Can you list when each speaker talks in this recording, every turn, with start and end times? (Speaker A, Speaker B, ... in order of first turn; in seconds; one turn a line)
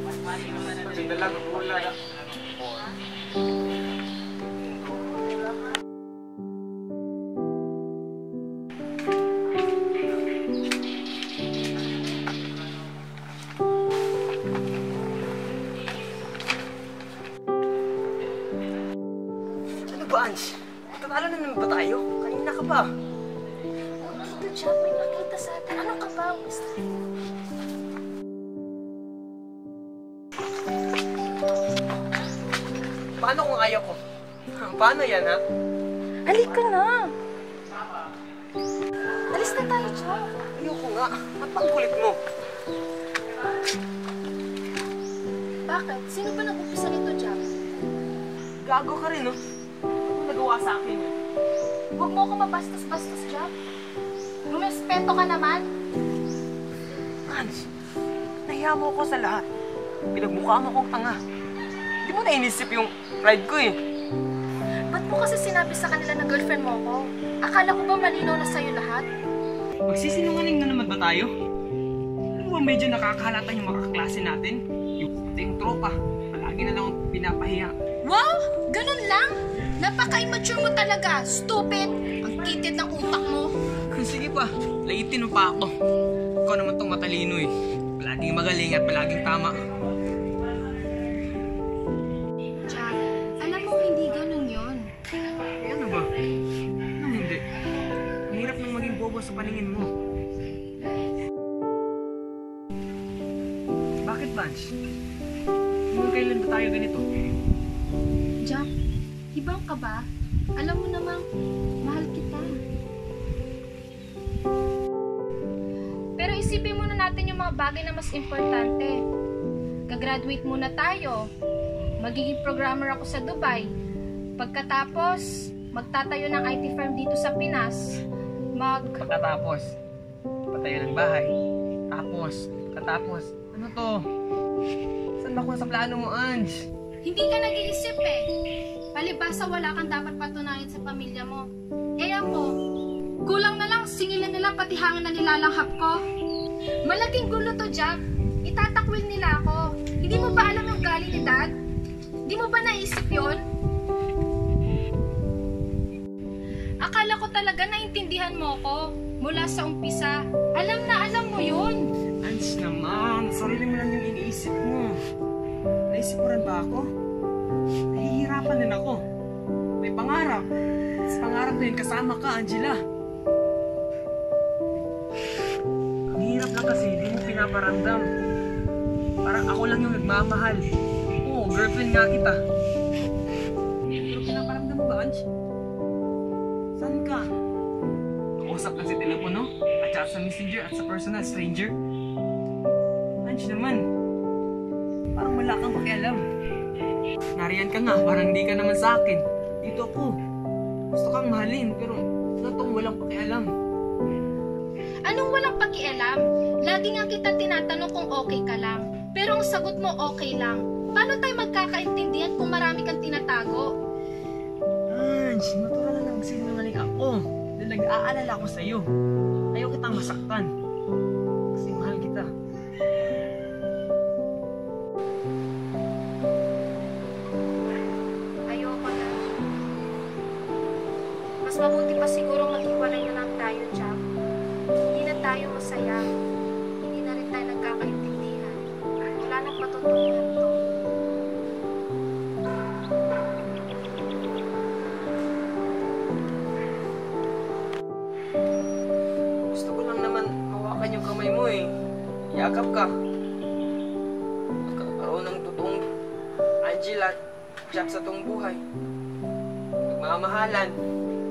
Speaker A: 0.6-1.9
Speaker A: 19.9-22.9
Speaker B: 24.0-26.8
Speaker A: 33.2-34.0
Speaker A: 34.6-35.4
Speaker B: 36.3-37.1
Speaker B: 39.3-40.3
Speaker A: 40.5-42.2
Speaker B: 45.7-47.5
Speaker A: 48.6-49.4
Speaker A: 50.1-51.1
Speaker B: 52.0-53.5
Speaker B: 54.5-55.6
Speaker A: 57.3-57.7
Speaker A: 58.5-59.5
Speaker A: 60.1-61.2
Speaker A: 62.0-63.8
Speaker B: 64.9-69.0
Speaker A: 69.9-71.3
Speaker A: 72.4-77.7
Speaker B: 78.0-83.5
Speaker A: 83.9-85.7
Speaker A: 86.4-89.6
Speaker B: 92.7-94.9
Speaker A: 95.6-96.1
Speaker A: 97.0-97.4
Speaker A: 98.3-99.9
Speaker A: 104.0-104.7
Speaker A: 105.9-107.0
Speaker B: 109.3-110.0
Speaker B: 110.6-111.2
Speaker B: 111.8-112.5
Speaker B: 116.2-119.0
Speaker B: 119.9-121.2
Speaker B: 122.0-123.7
Speaker B: 124.4-128.0
Speaker B: 128.6-129.1
Speaker A: 129.0-129.8
Speaker A: 130.5-131.3
Speaker A: 131.9-134.0
Speaker A: 135.2-136.6
Speaker B: 137.0-138.2
Speaker B: 138.9-141.5
Speaker B: 142.0-142.5
Speaker B: 143.2-146.0
Speaker B: 146.8-151.5
Speaker B: 152.2-153.4
Speaker B: 156.8-161.8
Speaker A: 162.2-164.9
Speaker A: 165.9-166.8
Speaker A: 167.9-169.0
Speaker A: 169.8-170.4
Speaker A: 171.1-172.8
Speaker A: 176.1-178.1
Speaker A: 179.2-180.6
Speaker A: 181.2-182.4
Speaker A: 183.9-185.2
Speaker A: 186.8-187.3
Speaker A: 188.4-191.8
Speaker A: 193.2-193.8
Speaker A: 195.1-196.2
Speaker A: 197.4-200.2
Speaker A: 200.9-203.5
Speaker B: 205.1-213.7
Speaker A: 214.9-218.9
Speaker A: 219.5-220.5
Speaker A: 221.5-222.3
Speaker B: 228.5-229.2
Speaker B: 231.4-234.0
Speaker B: 234.8-236.1
Speaker B: 236.8-240.6
Speaker A: 249.5-251.8
Speaker A: 252.3-252.9
Speaker A: 254.6-255.8
Speaker A: 256.6-257.2
Speaker A: 257.7-258.6
Speaker A: 259.9-260.8